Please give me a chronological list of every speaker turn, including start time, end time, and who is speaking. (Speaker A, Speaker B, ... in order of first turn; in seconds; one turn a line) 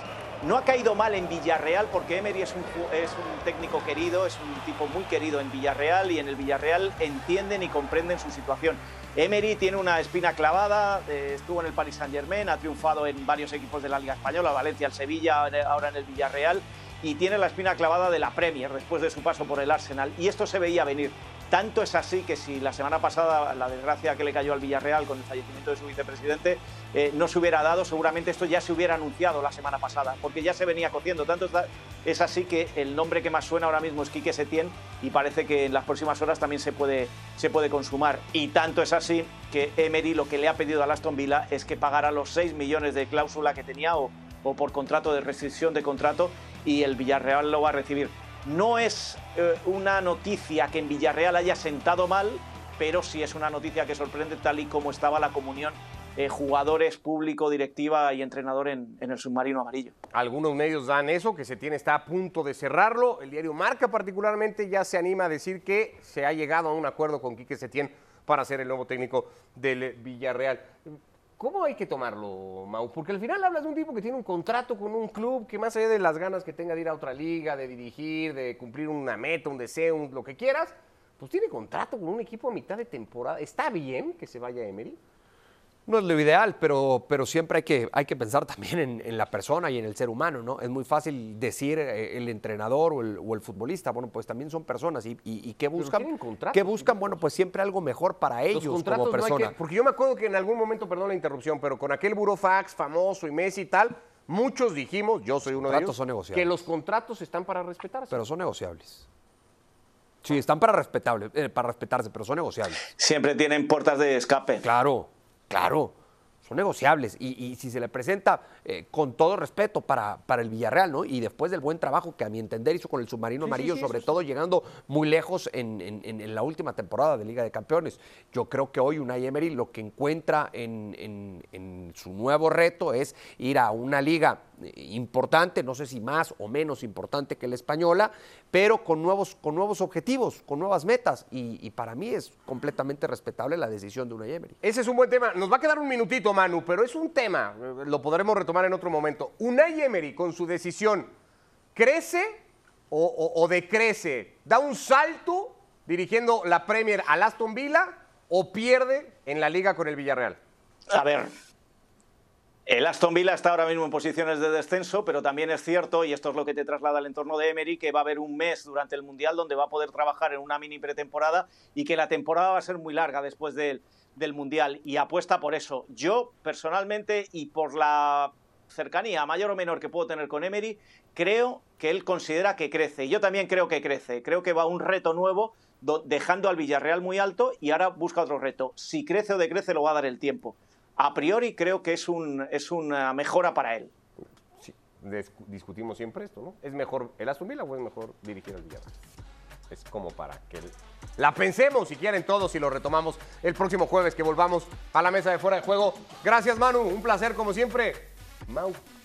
Speaker A: 0.4-59.9
Speaker B: 60.1-85.0
Speaker C: 85.9-99.5
Speaker B: 95.8-97.2
Speaker B: 98.5-108.2
Speaker C: 105.5-106.5
Speaker C: 108.1-109.1
Speaker C: 110.2-112.8
Speaker A: 113.0-114.6
Speaker C: 114.6-144.6
Speaker B: 123.5-124.0
Speaker B: 144.6-151.1
Speaker B: 151.8-152.4
Speaker B: 152.9-160.4
Speaker A: 160.9-161.3
Speaker A: 162.7-193.9
Speaker B: 194.6-198.9
Speaker B: 199.7-208.8